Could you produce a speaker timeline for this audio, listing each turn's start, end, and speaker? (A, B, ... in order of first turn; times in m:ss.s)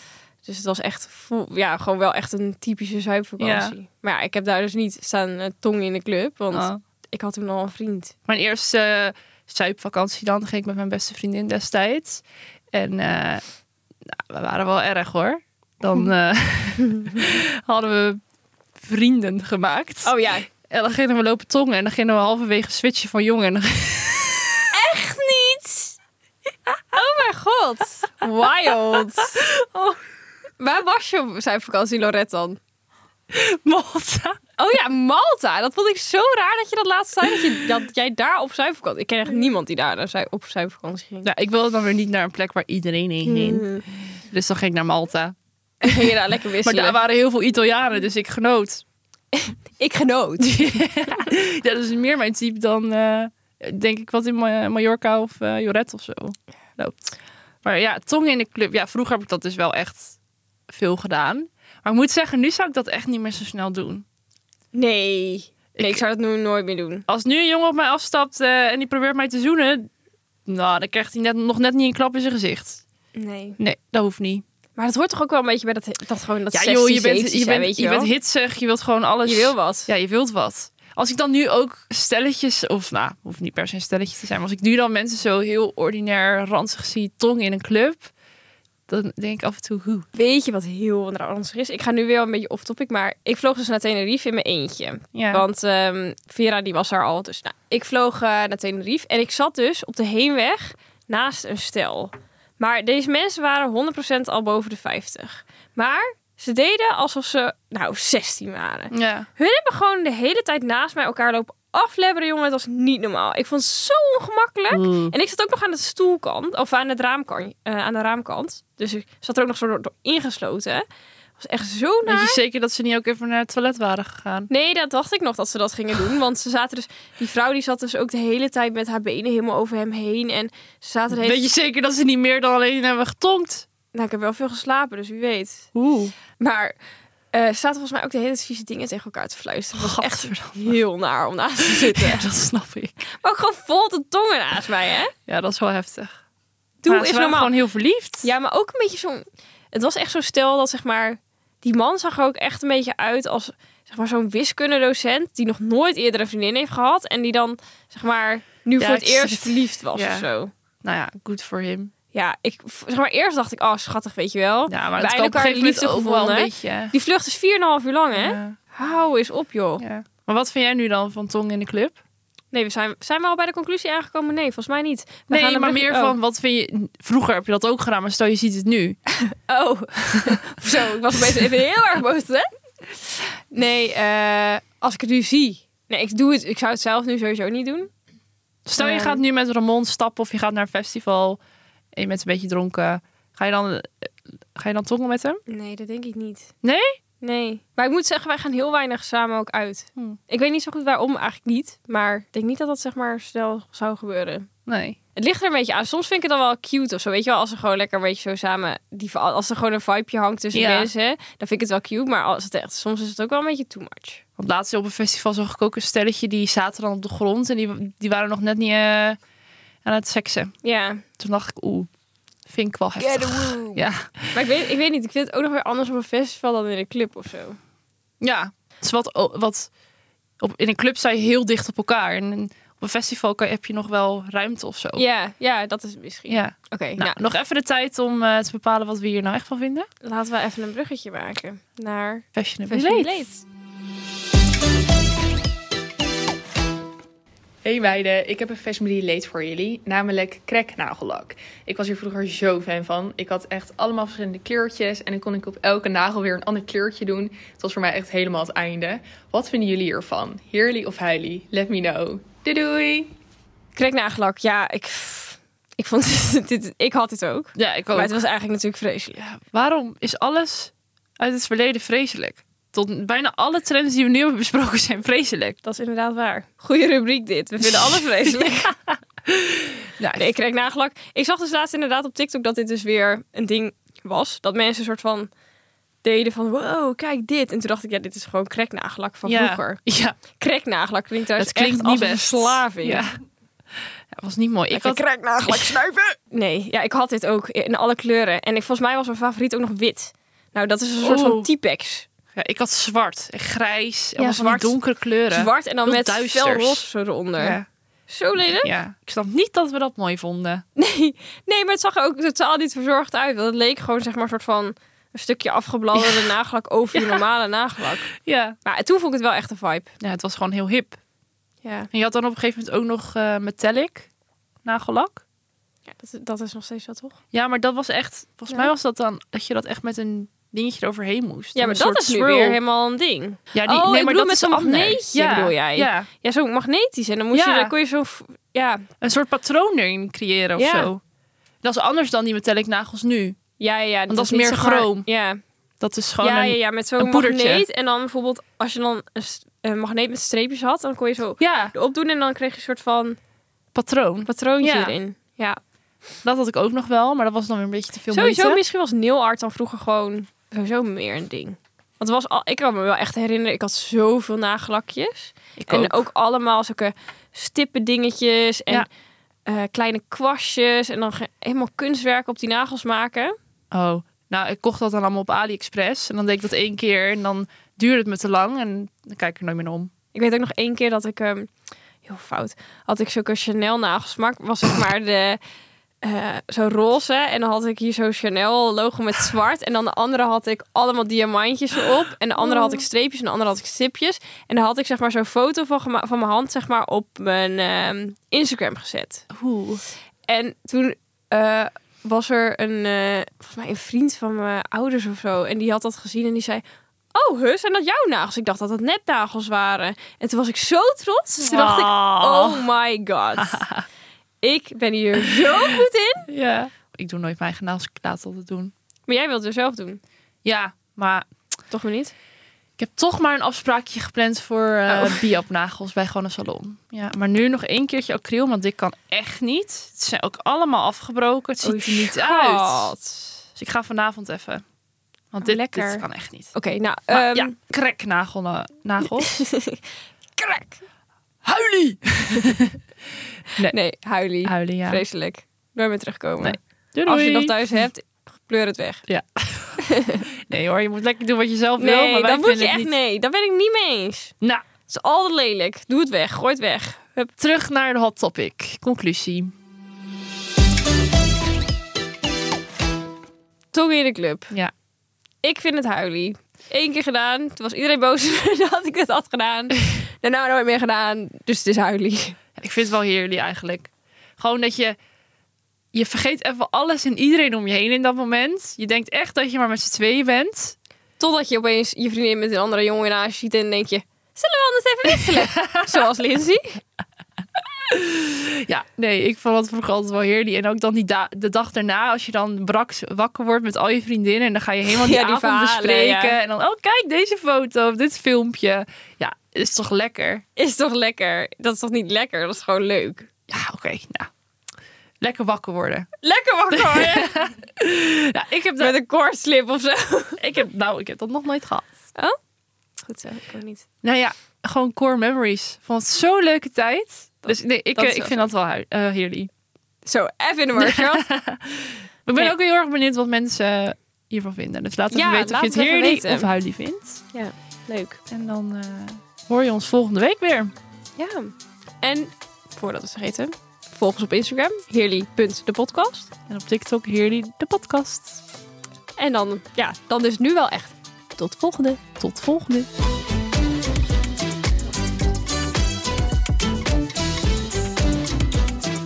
0:00.4-0:08.1 A
0:03.4-0:03.8 B
0:06.5-0:06.8 B
0:08.3-0:13.4 B
0:14.1-0:18.2 B
0:18.8-0:20.1 B
0:20.0-0:20.5 A
0:20.7-0:24.7 B
0:24.7-0:26.0 A
0:26.9-0:29.5 A
0:29.2-0:30.0 B
0:30.6-0:32.6 A
0:33.3-0:34.4 B
0:34.6-0:41.3 A
0:41.2-0:45.4 B
0:43.2-0:43.9 A
0:45.8-0:47.0 A
0:46.6-0:48.8 B
0:49.3-0:50.6 A
0:50.4-0:57.1 B
0:57.6-1:00.2 B
1:00.7-1:04.0 B
1:04.7-1:07.1 A
1:05.8-1:06.0 B
1:07.1-1:09.9 B
1:10.5-1:12.8 B
1:13.1-1:13.6 A
1:13.6-1:14.4 B
1:14.8-1:18.1 A
1:16.5-1:28.1 B
1:19.2-1:19.9 A
1:28.9-1:30.1 B
1:30.1-2:00.8 A
1:35.1-1:35.4 B
1:48.9-1:49.3 B
1:54.7-1:55.1 B
2:01.4-2:02.4 A
2:02.0-2:04.5 B
2:04.5-2:11.5 A
2:11.1-2:13.7 B
2:13.9-2:15.7 A
2:15.8-2:16.1 B
2:16.4-2:16.8 A
2:17.3-2:22.3 A
2:19.8-2:20.8 B
2:21.6-2:23.0 B
2:23.2-2:25.1 A
2:25.3-2:26.2 B
2:26.8-2:27.6 A
2:26.9-2:28.3 B
2:28.2-2:40.5 A
2:38.8-2:40.2 B
2:40.8-2:41.9 B
2:42.1-2:49.8 A
2:44.7-2:46.9 B
2:48.1-2:48.6 B
2:49.8-2:52.0 B
2:52.5-2:56.2 A
2:55.3-2:59.0 B
2:59.5-3:07.9 A
3:08.6-3:11.4 B
3:08.8-3:09.2 A
3:12.0-3:15.4 B
3:15.5-3:16.5 A
3:16.6-3:16.9 B
3:17.2-3:24.5 A
3:24.7-3:25.0 B
3:25.2-3:34.2 A
3:30.5-3:30.9 B
3:34.4-3:39.2 B
3:39.8-3:40.5 B
3:40.6-3:41.0 A
3:41.2-3:41.9 B
3:42.5-3:44.4 B
3:43.0-3:47.6 A
3:48.2-3:49.7 B
3:50.4-3:55.0 B
3:55.0-3:57.2 A
3:56.3-3:59.9 B
4:00.0-4:03.4 A
4:02.4-4:03.3 B
4:07.6-4:23.1 C
4:23.8-4:29.2 A
4:27.6-4:28.2 B
4:29.2-4:35.6 B
4:35.6-4:38.7 A
4:37.6-4:38.7 B
4:39.3-4:40.3 B
4:40.1-4:45.3 A
4:46.0-4:49.8 A
4:49.3-4:50.2 B
4:50.4-4:53.1 A
4:51.4-4:53.1 B
4:54.1-4:56.1 B
4:54.7-5:02.1 A
5:01.0-5:01.5 B
5:02.4-5:07.6 B
5:04.2-5:07.6 A
5:08.1-5:08.7 A
5:08.4-5:10.6 B
5:10.8-5:18.1 A
5:15.9-5:16.3 B
5:17.0-5:17.2 B
5:18.2-5:18.6 B
5:18.6-5:19.9 A
5:20.0-5:21.0 B
5:21.6-5:21.9 A
5:21.9-5:24.1 B
5:24.6-5:25.2 B
5:25.9-5:27.2 A
5:27.3-5:32.6 B
5:31.6-5:38.9 A
5:33.5-5:36.1 B
5:37.3-5:37.7 B
5:39.0-5:41.0 B
5:40.6-5:40.9 A
5:41.6-5:43.4 B
5:43.6-5:45.4 A
5:44.1-5:45.1 B
5:45.8-5:47.6 B
5:46.2-5:53.2 A
5:51.4-5:51.7 B
5:53.7-5:55.0 B
5:54.3-5:55.6 A
5:56.2-5:58.6 B
5:58.1-6:08.9 A
6:05.6-6:06.0 B
6:09.4-6:13.4 A
6:13.7-6:19.9 B
6:20.1-6:21.5 A
6:22.0-6:25.4 A
6:26.0-6:39.2 A
6:32.4-6:32.8 B
6:39.3-6:39.8 B
6:40.3-6:46.6 A
6:47.1-6:53.6 A
6:51.4-6:52.7 B
6:53.4-6:53.8 B
6:54.4-6:56.3 A
6:55.3-6:55.6 B
6:56.3-6:58.7 B
6:59.1-7:00.0 A
7:00.4-7:01.3 B
7:01.7-7:02.1 A
7:02.8-7:12.9 B
7:04.9-7:05.3 A
7:11.6-7:13.4 A
7:13.6-7:14.6 B
7:15.3-7:16.5 B
7:15.4-7:17.6 A
7:17.1-7:19.4 B
7:19.2-7:19.8 A
7:20.4-7:20.8 A
7:21.4-7:22.8 B
7:23.6-7:29.0 A
7:24.4-7:25.0 B
7:26.4-7:27.8 B
7:29.1-7:32.9 B
7:29.8-7:30.3 A
7:31.8-7:34.3 A
7:34.9-7:37.3 A
7:37.4-7:39.5 B
7:43.7-7:44.5 A
7:45.4-7:52.4 A
7:52.6-7:55.0 B
7:55.9-8:00.8 B
8:01.2-8:06.8 A
8:05.4-8:05.9 B
8:07.9-8:20.4 B
8:14.8-8:16.4 A
8:20.6-8:23.3 A
8:23.5-8:24.3 B
8:25.2-8:26.1 B
8:26.2-8:27.4 A
8:26.7-8:28.9 B
8:28.8-8:30.6 A
8:30.4-8:31.9 B
8:33.0-8:33.8 A
8:34.0-8:39.5 B
8:37.4-8:38.4 A
8:40.0-8:41.3 A
8:40.8-8:47.2 B
8:45.1-8:46.5 A
8:47.3-8:48.2 A
8:48.3-8:50.7 B
8:51.2-8:56.3 A
8:56.5-8:58.4 B
8:59.2-9:00.9 A
9:01.4-9:02.9 B